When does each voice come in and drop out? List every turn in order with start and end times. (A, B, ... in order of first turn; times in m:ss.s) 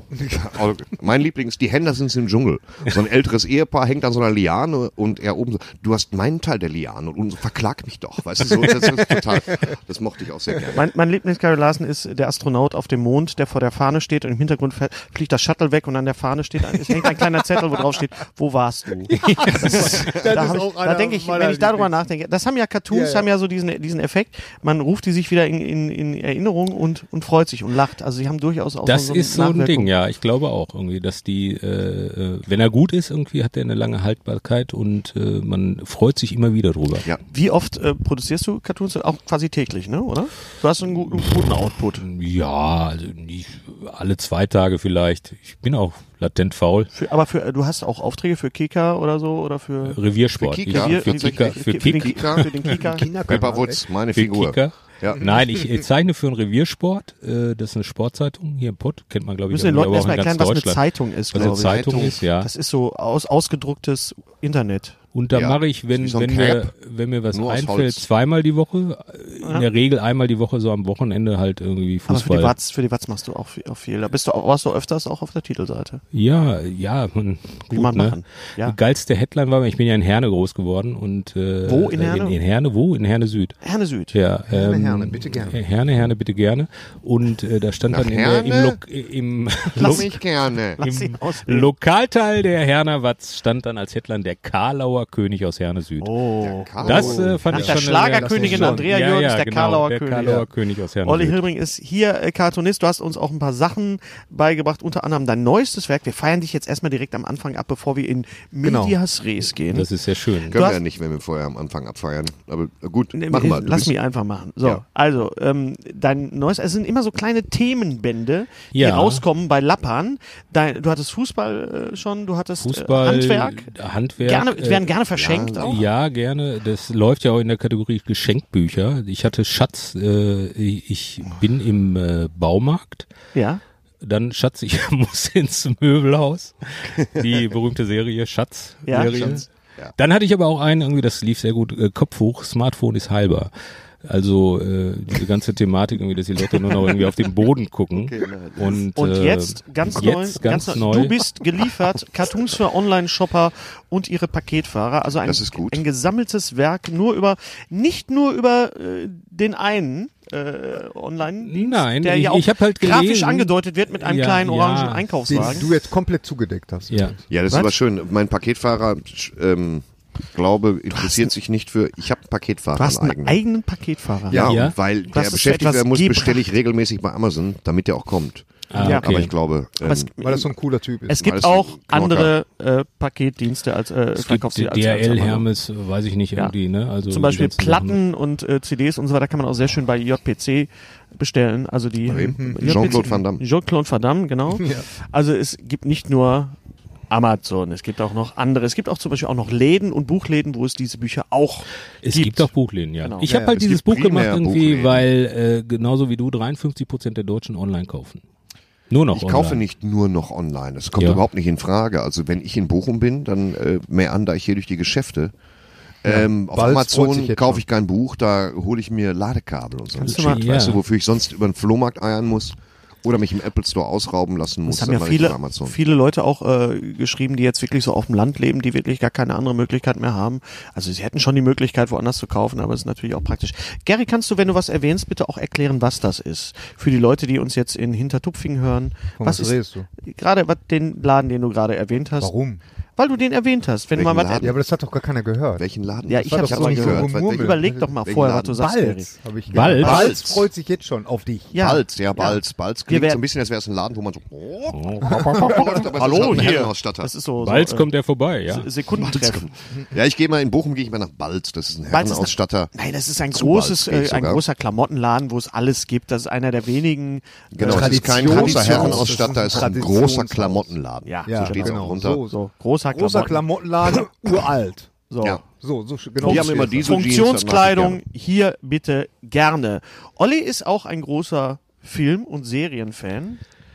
0:00.2-0:10.9 A
0:10.7-0:29.9 B
0:19.1-0:22.0 C
0:22.9-0:23.3 C
0:28.8-0:37.1 D
0:37.3-0:42.0 B
0:41.4-0:46.9 D
0:46.9-0:50.0 B
0:49.8-0:52.6 D
0:50.4-0:52.5 A
0:50.7-0:53.1 B
0:52.8-0:53.8 C
0:53.3-0:55.4 A
0:54.1-1:02.5 D
0:59.5-1:05.0 B
1:01.3-1:02.2 A
1:05.1-1:12.5 D
1:05.3-1:06.7 A
1:07.3-1:08.0 A
1:12.1-1:16.0 B
1:16.1-1:23.6 D
1:17.7-1:18.7 B
1:21.6-1:22.4 B
1:23.6-1:24.1 B
1:24.1-1:30.2 D
1:24.5-1:25.6 C
1:27.9-1:28.8 A
1:29.8-1:30.8 A
1:29.8-1:31.7 B
1:30.8-1:36.1 D
1:36.0-1:40.4 B
1:36.4-1:37.4 A
1:36.8-1:41.4 D
1:36.9-1:38.9 C
1:41.0-1:49.9 B
1:48.6-1:49.0 C
1:49.7-1:50.6 D
1:50.5-1:53.9 A
1:50.5-1:50.8 B
1:53.1-2:05.8 B
1:58.7-1:59.2 D
2:02.6-2:04.9 D
2:05.1-2:05.8 A
2:05.6-2:13.1 D
2:13.3-2:13.6 B
2:14.0-2:19.4 D
2:18.9-2:19.1 B
2:18.9-2:19.9 A
2:20.0-2:23.5 D
2:24.0-2:31.2 D
2:28.0-2:28.8 A
2:28.9-2:45.7 B
2:35.2-2:35.8 A
2:41.4-2:45.7 D
2:45.3-2:47.2 C
2:46.9-2:47.2 D
2:47.3-2:53.4 A
2:50.9-2:51.3 B
2:52.7-2:54.5 B
2:54.3-3:00.1 A
2:54.4-2:54.8 D
2:55.1-2:56.4 B
2:58.7-2:59.3 D
2:58.8-3:00.5 B
3:00.2-3:01.2 C
3:01.1-3:05.5 B
3:01.2-3:02.3 A
3:04.2-3:08.0 D
3:07.1-3:16.6 B
3:12.0-3:13.4 A
3:12.1-3:13.2 C
3:14.5-3:14.9 C
3:17.1-3:22.5 B
3:22.0-3:28.2 D
3:23.0-3:23.3 B
3:23.2-3:23.6 C
3:23.5-3:25.0 A
3:28.9-3:29.6 D
3:29.1-3:35.3 A
3:36.0-3:45.8 A
3:36.0-3:37.6 C
3:40.0-3:40.4 B
3:40.1-3:40.8 D
3:44.6-4:02.3 B
3:59.2-3:59.9 C
4:02.2-4:02.6 C
4:03.0-4:04.5 B
4:03.9-4:04.6 A
4:04.4-4:05.7 C
4:05.6-4:08.6 A
4:06.1-4:09.1 B
4:06.2-4:07.9 C
4:08.6-4:11.6 C
4:09.5-4:10.2 D
4:09.8-4:10.4 A
4:09.8-4:10.1 B
4:11.5-4:13.2 B
4:11.6-4:17.1 A
4:14.7-4:15.8 D
4:15.2-4:15.6 C
4:15.8-4:17.9 B
4:17.4-4:18.7 D
4:18.5-4:19.5 B
4:18.9-4:22.7 A
4:21.9-4:29.3 B
4:23.3-4:24.4 A
4:27.5-4:32.2 A
4:27.6-4:30.7 C
4:31.0-4:34.1 B
4:31.2-4:32.3 C
4:32.9-4:34.9 C
4:35.1-4:35.4 B
4:35.5-4:36.9 C
4:36.2-4:38.0 A
4:36.2-4:43.4 B